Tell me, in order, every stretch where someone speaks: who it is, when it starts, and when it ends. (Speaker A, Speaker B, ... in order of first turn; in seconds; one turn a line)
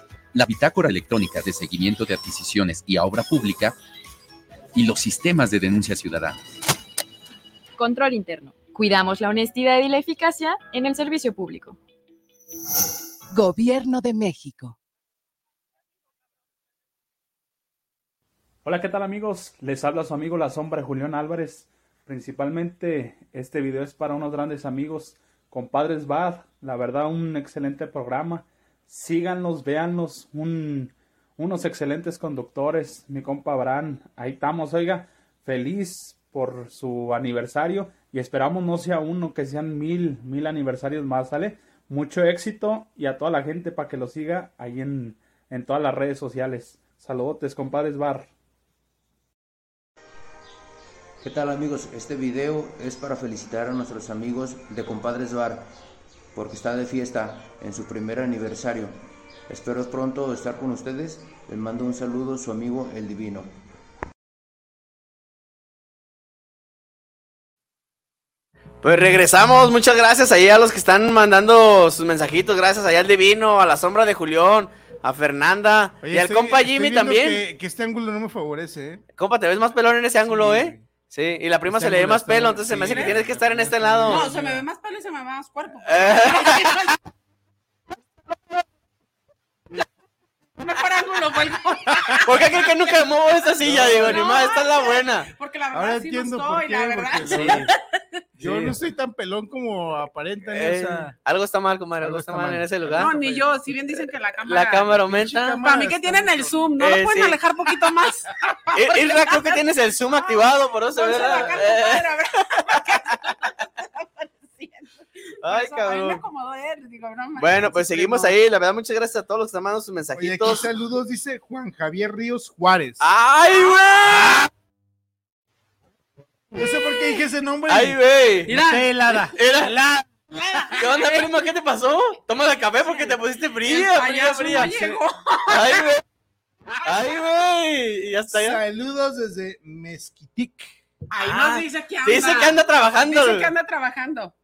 Speaker A: 0.3-3.7
Speaker A: 4.8-6.4
Speaker B: 7.8-11.8
Speaker C: 18.6-48.3
Speaker D: 51.2-55.7
Speaker D: 56.3-59.0
Speaker D: 59.5-63.5
Speaker E: 68.8-77.4
Speaker F: 76.0-79.0
Speaker E: 79.2-84.3
Speaker F: 80.2-80.8
Speaker F: 81.7-84.6
Speaker G: 82.9-83.2
Speaker G: 84.1-86.9
Speaker E: 85.9-86.7
Speaker G: 90.6-92.9
Speaker E: 92.2-95.3
Speaker F: 93.6-94.3
Speaker G: 94.0-97.8
Speaker F: 95.7-97.7
Speaker E: 97.3-97.7
Speaker F: 98.4-101.1
Speaker E: 98.4-98.8
Speaker E: 100.5-103.2
Speaker F: 102.0-103.4
Speaker G: 103.0-105.0
Speaker E: 104.0-105.6
Speaker F: 104.9-106.7
Speaker G: 105.6-109.6
Speaker E: 106.8-107.4
Speaker E: 108.8-112.1
Speaker G: 110.9-118.3
Speaker E: 115.4-116.2
Speaker E: 117.4-120.7
Speaker F: 120.2-123.0
Speaker E: 123.0-124.5
Speaker F: 124.1-124.5
Speaker F: 126.6-130.0
Speaker E: 127.7-128.5
Speaker G: 128.5-128.9
Speaker E: 129.3-129.7
Speaker G: 130.3-131.3
Speaker E: 130.8-135.0
Speaker G: 132.9-135.8
Speaker E: 135.5-136.0
Speaker E: 136.8-138.6
Speaker F: 138.3-140.7
Speaker G: 141.1-144.3
Speaker E: 141.2-143.5